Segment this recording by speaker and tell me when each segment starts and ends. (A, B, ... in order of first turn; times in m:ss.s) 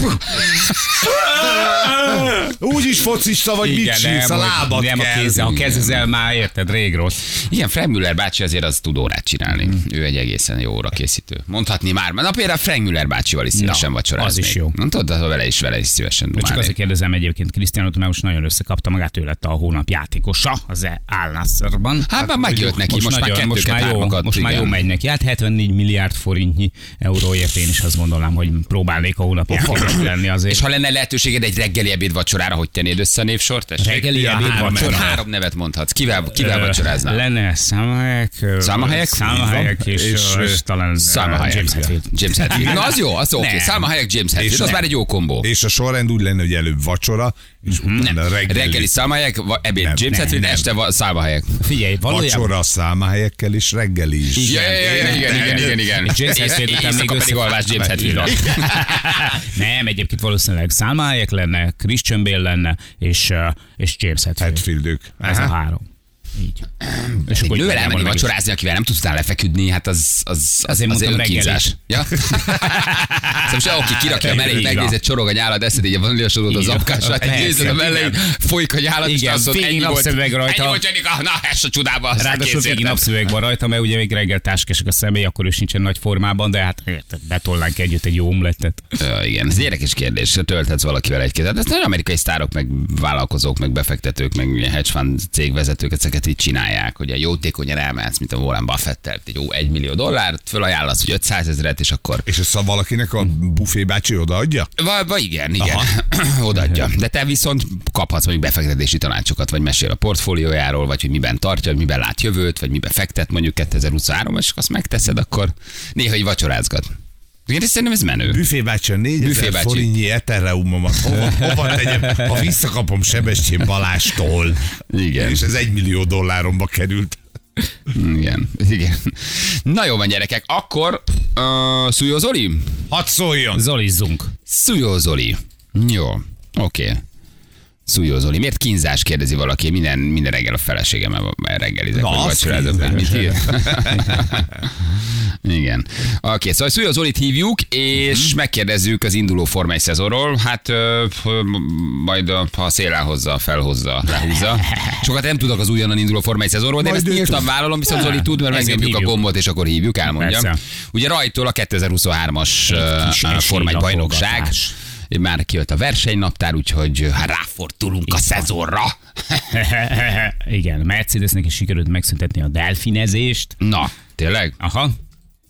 0:00.3-0:01.1 A
0:01.2-0:05.6 B
0:03.6-0:07.2 C
0:05.7-0:06.0 A
0:07.3-0:16.7 A
0:13.6-0:14.8 C
0:16.4-0:30.6 C
0:22.1-0:24.8 A
0:29.5-0:30.0 B
0:30.5-0:37.2 A
0:33.8-0:35.1 C
0:33.8-0:35.2 B
0:36.4-0:43.9 C
0:38.6-0:39.4 A
0:39.2-0:40.6 B
0:41.0-0:45.5 A
0:44.4-0:48.9 B
0:47.7-0:48.1 C
0:48.4-0:51.6 A
0:49.8-0:50.6 B
0:50.1-0:50.6 C
0:51.6-0:52.5 C
0:52.1-0:55.8 B
0:54.4-1:04.6 C
0:54.4-0:59.3 A
1:04.4-1:05.5 B
1:05.2-1:05.8 C
1:06.8-1:23.1 A
1:07.3-1:08.3 C
1:10.7-1:13.0 C
1:13.9-1:14.4 B
1:14.2-1:15.0 C
1:16.5-1:18.2 C
1:19.0-1:20.8 C
1:22.2-1:28.8 C
1:29.0-1:42.3 A
1:42.3-1:44.7 B
1:44.8-1:56.9 A
1:45.6-1:45.9 B
1:57.5-1:58.4 A
1:58.3-2:04.6 B
1:59.2-1:59.9 A
2:04.9-2:05.4 A
2:05.2-2:07.2 B
2:07.9-2:12.8 A
2:12.9-2:13.6 B
2:13.6-2:14.3 C
2:14.5-2:17.0 A
2:17.9-2:44.6 A
2:21.9-2:24.0 B
2:36.8-2:37.5 B
2:37.9-2:39.2 C
2:40.2-2:40.6 C
2:42.7-2:44.7 C
2:45.1-2:49.5 A
2:48.1-2:48.5 C
2:49.5-2:53.6 C
2:53.6-2:54.6 A
2:54.6-2:54.9 C